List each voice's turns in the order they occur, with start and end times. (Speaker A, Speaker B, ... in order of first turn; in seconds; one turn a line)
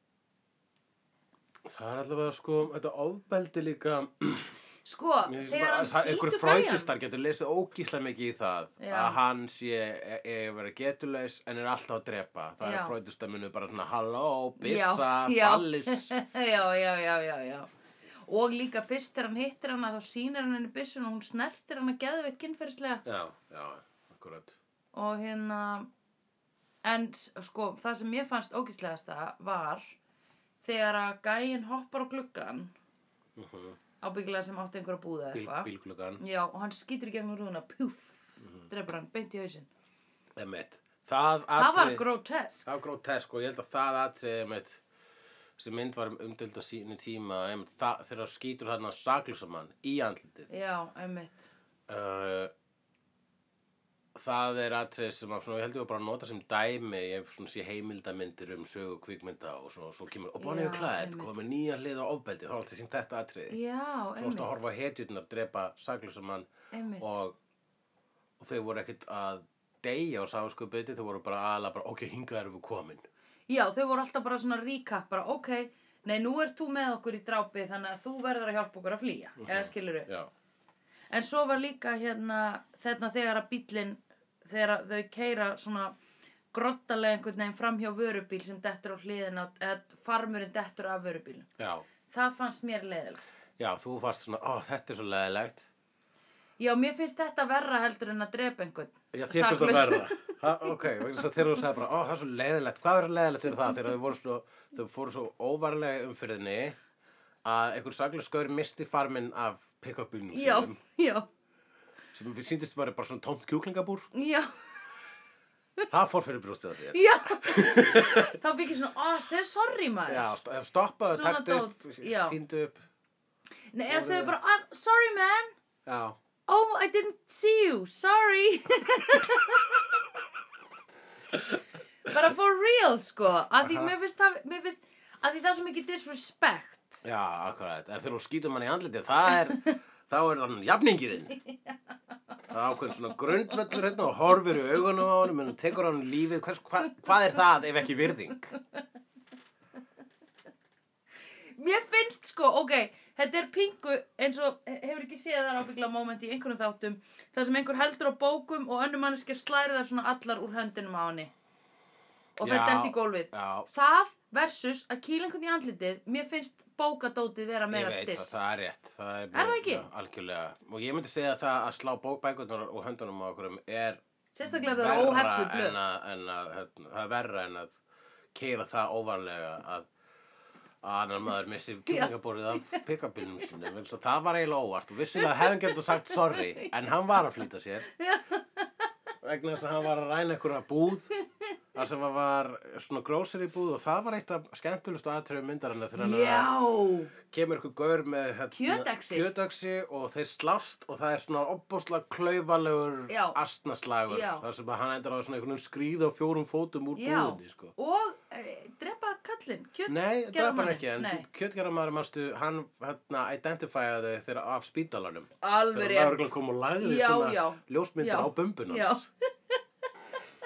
Speaker A: 1.6-4.5
Speaker B: 4.8-6.9
Speaker A: 5.2-16.1
Speaker B: 8.8-9.2
Speaker B: 12.6-12.9
Speaker B: 14.6-17.7
Speaker B: 18.3-23.0
Speaker A: 23.0-24.6
Speaker B: 24.9-25.9
Speaker B: 26.8-29.9
Speaker B: 30.6-32.7
Speaker A: 33.4-33.8
Speaker B: 34.0-39.7
Speaker A: 35.3-36.2
Speaker A: 40.4-42.0
Speaker B: 41.5-42.8
Speaker A: 42.6-44.8
Speaker A: 45.6-50.5
Speaker B: 50.5-51.5
Speaker A: 51.9-52.5
Speaker A: 54.1-63.6
Speaker B: 60.4-61.4
Speaker B: 63.5-64.7
Speaker A: 64.2-66.5
Speaker B: 66.7-67.2
Speaker A: 67.0-67.3
Speaker A: 68.4-73.0
Speaker B: 73.5-80.1
Speaker A: 79.4-80.3
Speaker B: 81.1-86.0
Speaker B: 86.5-91.5
Speaker A: 91.6-91.8
Speaker B: 92.1-93.3
Speaker A: 93.6-95.7
Speaker B: 96.6-100.4
Speaker A: 99.1-106.8
Speaker A: 107.4-110.8
Speaker B: 110.3-111.2
Speaker A: 112.1-114.1
Speaker B: 114.1-114.8
Speaker A: 115.9-118.4
Speaker B: 116.9-120.3
Speaker A: 120.1-122.8
Speaker B: 121.1-122.4
Speaker B: 123.7-125.5
Speaker A: 123.9-124.3
Speaker A: 125.8-126.2
Speaker B: 126.5-129.8
Speaker B: 132.0-137.0
Speaker A: 133.6-133.9
Speaker A: 137.0-141.3
Speaker A: 142.5-148.5
Speaker B: 143.5-143.7
Speaker B: 151.6-161.3
Speaker B: 162.4-168.4
Speaker A: 162.4-163.7
Speaker A: 167.7-177.7
Speaker B: 169.3-169.9
Speaker B: 174.3-175.9
Speaker A: 178.3-179.9
Speaker A: 180.8-187.9
Speaker B: 181.9-182.8
Speaker B: 185.2-186.7
Speaker B: 187.9-188.8
Speaker A: 189.2-191.1
Speaker A: 191.7-196.5
Speaker B: 196.0-197.1
Speaker A: 197.2-207.7
Speaker B: 198.5-199.2
Speaker B: 203.1-203.4
Speaker B: 204.1-204.4
Speaker B: 206.9-211.2
Speaker A: 209.9-219.1
Speaker B: 215.4-219.6